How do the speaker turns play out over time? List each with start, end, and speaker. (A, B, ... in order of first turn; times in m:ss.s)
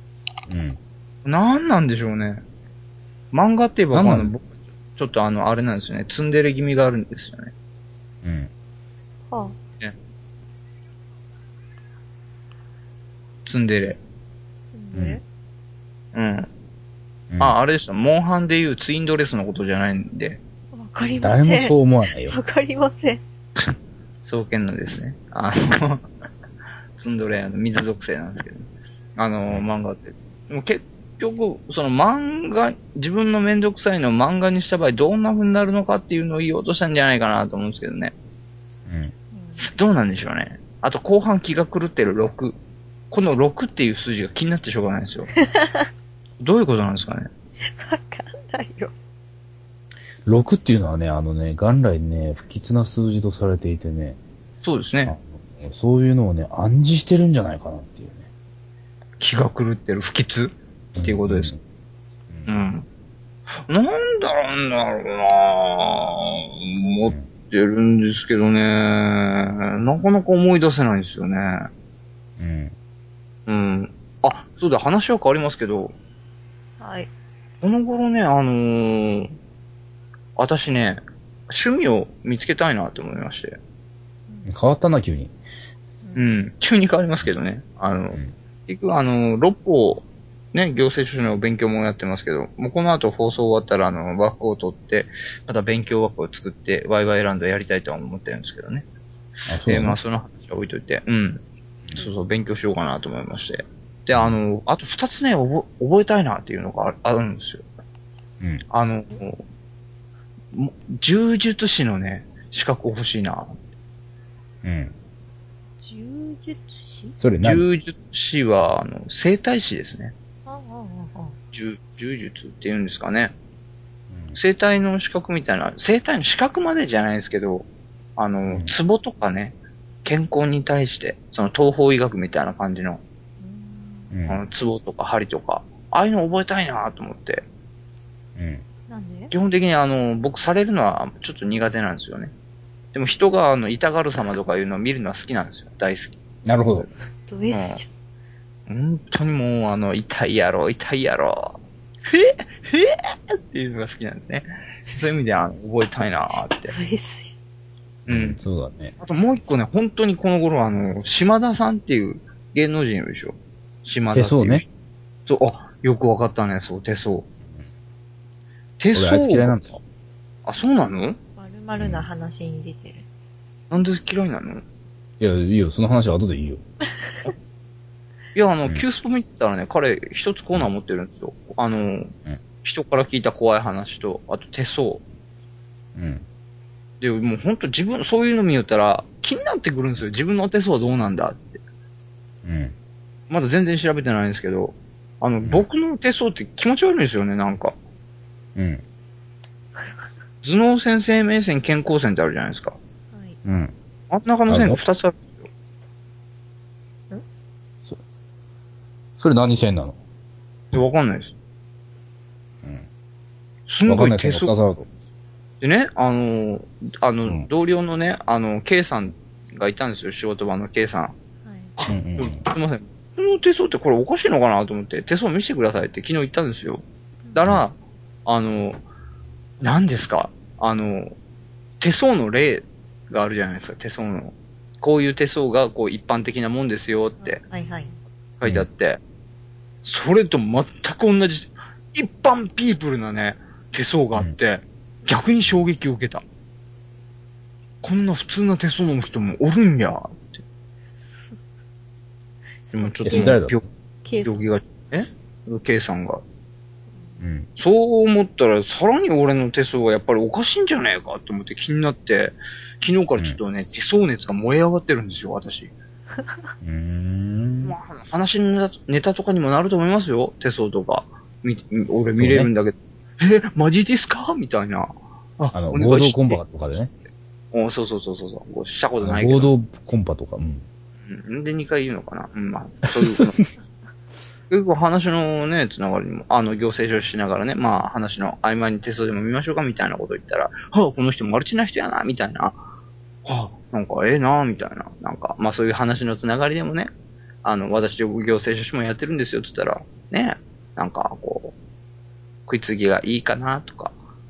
0:00.5-0:00.8 A
0:01.2-0:02.4 B
0:03.3-0:07.5 B
0:03.9-0:04.3 A
0:08.2-0:08.5 A
0:09.3-0:09.6 C
0:13.4-0:14.0 B
0:14.6-0:15.2 C
0:14.9-0:15.2 A
0:16.1-0:16.5 B
0:17.3-0:17.6 A
0:17.4-0:20.4 B
0:20.7-0:23.2 C
0:21.2-0:22.4 A
0:24.2-0:26.0 B
0:27.0-0:38.1 B
0:38.9-0:39.1 A
0:39.3-0:39.7 C
0:39.6-0:42.6 B
0:43.1-0:45.3 B
0:45.4-0:45.9 C
0:46.4-0:47.3 B
0:47.8-0:48.9 C
0:50.3-0:54.2 A
0:54.6-0:55.2 B
0:55.1-0:58.3 A
0:59.2-1:01.5 B
1:01.0-1:01.6 A
1:02.3-1:02.6 A
1:02.5-1:02.9 B
1:03.7-1:11.7 B
1:12.4-1:12.7 A
1:13.5-1:16.0 B
1:16.8-1:17.1 C
1:17.6-1:19.4 B
1:20.4-1:23.6 B
1:24.5-1:25.3 A
1:26.0-1:26.3 C
1:26.2-1:38.9 B
1:39.5-1:40.0 A
1:39.7-1:41.4 B
1:41.9-1:47.6 B
1:48.7-1:49.4 B
1:50.5-1:53.5 B
1:54.6-1:54.9 A
1:55.8-1:57.2 C
1:57.2-1:57.6 A
1:57.4-2:00.1 B
2:00.5-2:01.4 C
2:01.5-2:03.4 B
2:04.1-2:04.4 A
2:04.4-2:13.0 B
2:08.5-2:08.7 A
2:13.4-2:14.1 C
2:14.1-2:14.4 A
2:14.3-2:17.4 B
2:18.4-2:18.6 A
2:18.9-2:19.3 C
2:19.3-2:22.3 B
2:22.9-2:26.2 B
2:26.5-2:26.9 A
2:27.3-2:27.9 C
2:27.5-2:27.8 B
2:28.7-2:36.7 B
2:36.7-2:37.3 C
2:38.1-2:38.9 A
2:38.1-2:38.4 B
2:39.0-2:44.6 B
2:44.1-2:44.6 A
2:45.3-2:47.3 B
2:48.8-2:49.6 B
2:48.9-2:49.8 A
2:50.5-2:51.2 B
2:51.4-2:53.0 C
2:51.8-2:52.1 A
2:53.7-2:54.6 B
2:55.2-2:56.6 A
2:58.3-3:02.1 B
3:02.6-3:05.0 B
3:06.0-3:06.2 A
3:07.0-3:11.6 B
3:12.4-3:12.7 A
3:13.3-3:17.8 B
3:15.4-3:15.7 A
3:18.6-3:18.8 A
3:20.4-3:22.8 B
3:23.1-3:23.4 C
3:23.4-3:23.7 A
3:24.1-3:25.5 B
3:24.5-3:24.8 A
3:29.2-3:30.0 A
3:30.7-3:31.4 B
3:33.7-3:34.5 B
3:33.9-3:34.9 A
3:35.6-3:41.2 B
3:41.4-3:41.7 C
3:41.9-3:42.4 A
3:42.2-3:48.8 B
3:49.6-3:51.2 B
3:51.8-3:57.4 B
3:57.2-3:58.0 C
3:58.4-3:59.0 B
3:59.8-4:06.2 B
4:07.8-4:10.4 B
4:11.1-4:11.4 C
4:12.7-4:13.4 C
4:12.7-4:13.7 B
4:13.0-4:13.6 A
4:14.0-4:14.4 C
4:14.2-4:16.2 B
4:16.9-4:17.2 C
4:17.2-4:17.5 A
4:17.6-4:25.7 B
4:26.6-4:27.8 A
4:27.6-4:36.4 B
4:32.2-4:32.5 A
4:35.5-4:36.9 A
4:37.5-4:39.5 B
4:39.0-4:40.6 A
4:41.1-4:43.4 B
4:44.5-4:52.6 B
4:53.2-4:56.9 B
4:57.4-5:01.6 B
5:02.5-5:04.0 B